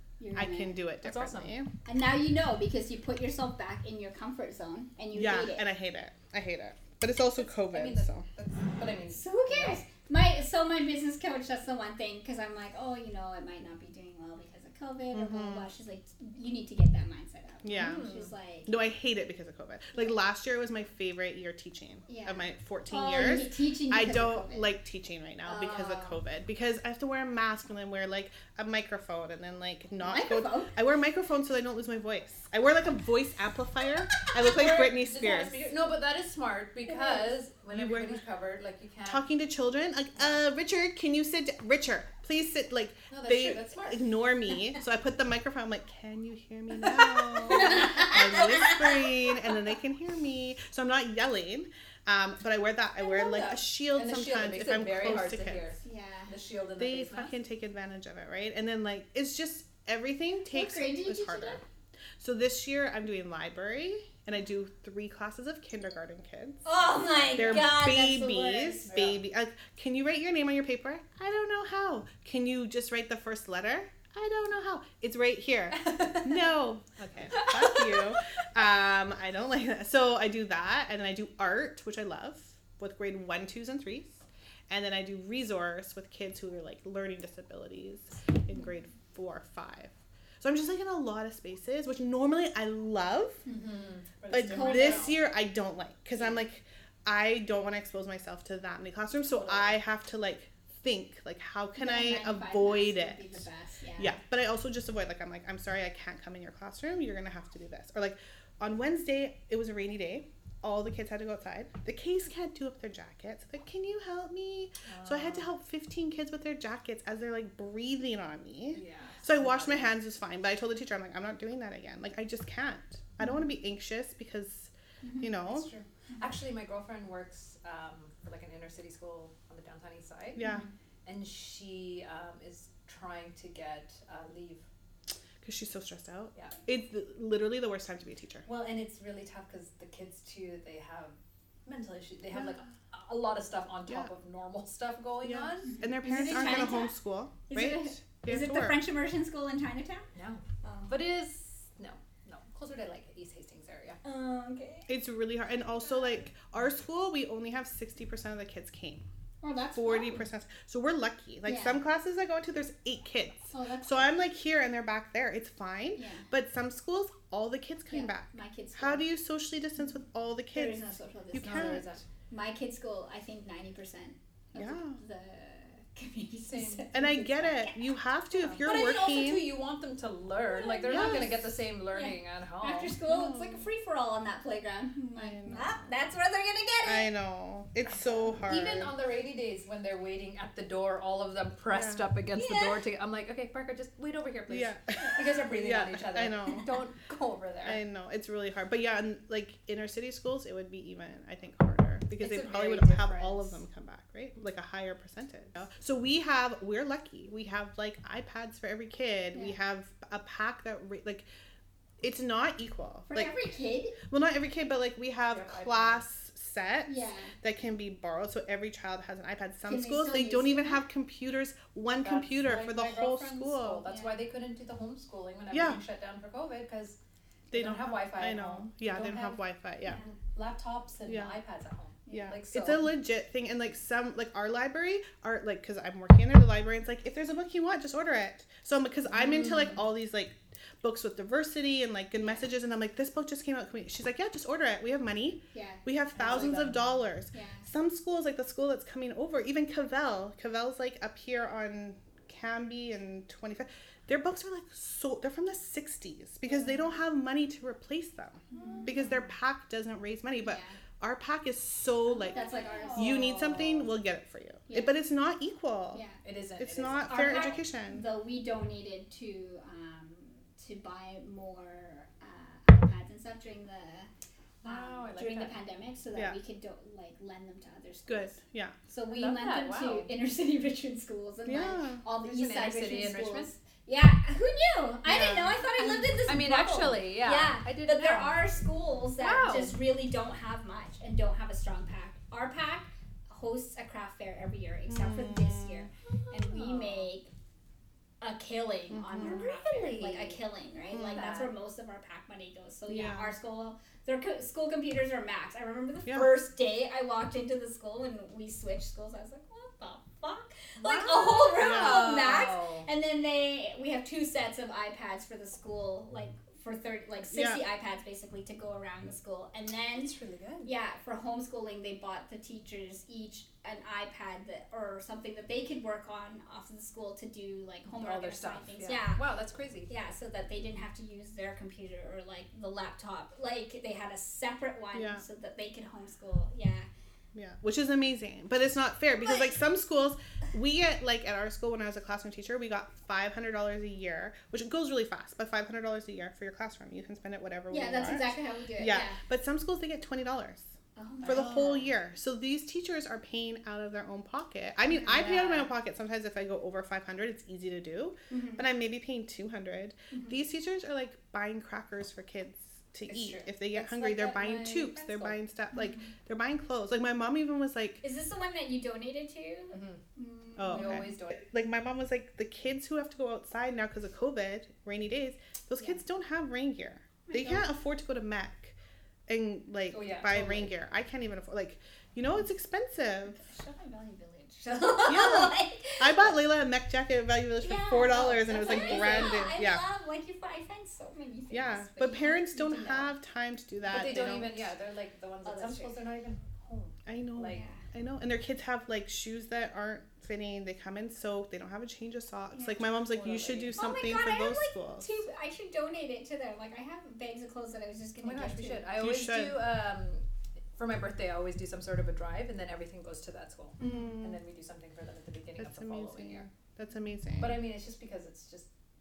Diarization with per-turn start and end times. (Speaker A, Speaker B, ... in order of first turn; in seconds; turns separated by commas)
Speaker A: 0.2-0.8, Speaker B: 0.3-1.7, Speaker C: 1.0-1.6, Speaker A: 1.9-5.6, Speaker B: 5.1-8.3, Speaker C: 7.4-9.8, Speaker A: 9.1-18.7, Speaker B: 15.1-15.7, Speaker B: 17.6-18.0, Speaker C: 17.7-18.3, Speaker B: 18.7-35.6, Speaker A: 22.1-24.7, Speaker A: 25.4-26.2, Speaker A: 30.0-30.7, Speaker C: 34.4-39.3, Speaker A: 36.9-37.3, Speaker B: 37.7-38.2, Speaker B: 39.1-55.7, Speaker C: 43.1-44.1, Speaker A: 47.5-48.9, Speaker C: 47.6-48.0, Speaker C: 53.0-57.3, Speaker A: 55.8-56.3, Speaker B: 56.8-61.6, Speaker A: 60.5-61.6, Speaker B: 62.2-66.7, Speaker A: 66.7-68.9, Speaker B: 67.3-93.5, Speaker C: 68.9-69.2, Speaker C: 75.7-76.5, Speaker C: 77.3-78.2, Speaker C: 93.5-95.2, Speaker B: 94.3-103.5, Speaker A: 94.4-95.1, Speaker C: 99.3-99.8, Speaker A: 101.8-104.2, Speaker B: 104.0-125.7, Speaker C: 114.9-115.5, Speaker C: 118.7-119.9, Speaker A: 125.0-125.3, Speaker C: 125.5-130.4, Speaker B: 130.4-130.7, Speaker A: 130.4-130.7, Speaker C: 131.1-134.7, Speaker B: 135.4-138.5, Speaker C: 138.4-141.2, Speaker C: 141.7-145.8, Speaker B: 145.2-148.8, Speaker A: 145.6-146.9, Speaker A: 147.5-150.1, Speaker C: 150.2-154.0, Speaker A: 150.6-150.9, Speaker A: 154.0-154.9, Speaker B: 154.9-159.1, Speaker A: 155.9-156.2, Speaker A: 159.4-160.2, Speaker B: 159.8-171.9, Speaker A: 161.4-161.8, Speaker A: 163.5-164.1, Speaker A: 166.0-166.3, Speaker A: 167.9-169.1, Speaker A: 170.5-177.8, Speaker C: 171.4-172.0, Speaker B: 174.6-175.0, Speaker C: 176.5-177.0, Speaker B: 176.9-179.5, Speaker C: 178.4-183.0, Speaker A: 180.5-181.3, Speaker B: 180.9-181.4, Speaker A: 181.9-187.1, Speaker B: 183.1-183.7, Speaker B: 185.2-185.9, Speaker B: 186.8-188.9, Speaker C: 188.4-197.8, Speaker B: 191.7-192.1, Speaker A: 192.3-192.8, Speaker B: 194.5-196.7, Speaker B: 197.6-211.3, Speaker C: 202.2-203.6, Speaker B: 212.0-213.3, Speaker A: 213.1-214.0, Speaker B: 214.0-223.9, Speaker C: 215.3-216.0, Speaker A: 216.9-217.3, Speaker A: 219.7-220.8, Speaker C: 222.0-227.0, Speaker A: 223.8-224.2, Speaker B: 225.5-225.8, Speaker B: 227.5-230.0, Speaker C: 227.5-229.4, Speaker C: 230.2-232.9, Speaker B: 231.1-231.4, Speaker A: 232.1-232.3, Speaker B: 232.1-266.1, Speaker C: 239.2-239.8, Speaker A: 242.2-242.4, Speaker A: 245.5-245.8, Speaker C: 246.2-247.0, Speaker A: 247.3-247.7, Speaker A: 258.5-259.3, Speaker C: 258.5-259.0, Speaker A: 260.4-260.8, Speaker A: 262.1-263.6, Speaker C: 262.3-263.9, Speaker A: 264.7-264.9, Speaker A: 265.9-266.2, Speaker C: 266.2-267.6, Speaker B: 266.6-268.1, Speaker A: 267.0-274.1, Speaker A: 274.6-278.4, Speaker C: 274.6-275.6, Speaker B: 278.1-278.8, Speaker A: 278.9-297.3, Speaker C: 279.1-280.1, Speaker B: 281.5-282.0, Speaker C: 282.2-283.5, Speaker B: 285.1-285.6, Speaker C: 285.8-288.4, Speaker C: 289.2-289.8, Speaker B: 294.9-295.9, Speaker C: 296.1-297.1, Speaker A: 298.2-329.2, Speaker B: 298.9-299.4, Speaker C: 299.1-300.4, Speaker C: 300.9-301.6, Speaker B: 300.9-301.2, Speaker B: 302.9-303.3, Speaker C: 310.8-312.9, Speaker B: 311.6-312.2, Speaker B: 317.3-317.6, Speaker C: 320.0-320.7, Speaker C: 328.0-329.9, Speaker A: 329.9-336.9, Speaker B: 334.9-335.2, Speaker B: 337.3-350.7, Speaker A: 339.2-339.6, Speaker A: 347.7-349.2, Speaker A: 351.0-351.6, Speaker C: 351.2-351.9, Speaker B: 351.2-368.0, Speaker C: 355.0-355.7, Speaker A: 358.3-358.6, Speaker A: 360.1-360.4, Speaker C: 363.1-365.4, Speaker A: 365.7-366.1, Speaker A: 368.0-371.2, Speaker C: 369.7-370.0, Speaker B: 370.6-378.8, Speaker C: 370.7-371.4, Speaker A: 377.3-377.7, Speaker B: 379.3-383.4, Speaker C: 379.9-380.7, Speaker A: 383.3-386.3, Speaker B: 385.1-389.8, Speaker A: 387.6-393.1, Speaker C: 388.1-389.4, Speaker B: 391.5-394.7, Speaker C: 393.9-397.6, Speaker A: 395.4-395.9, Speaker B: 397.1-405.1, Speaker A: 397.5-397.8, Speaker A: 402.5-402.8, Speaker C: 402.9-403.8, Speaker A: 403.7-408.9, Speaker C: 408.2-410.2, Speaker B: 409.0-409.6, Speaker C: 410.8-416.5, Speaker B: 413.8-414.4, Speaker A: 413.8-414.1, Speaker B: 415.6-417.6, Speaker C: 417.4-418.7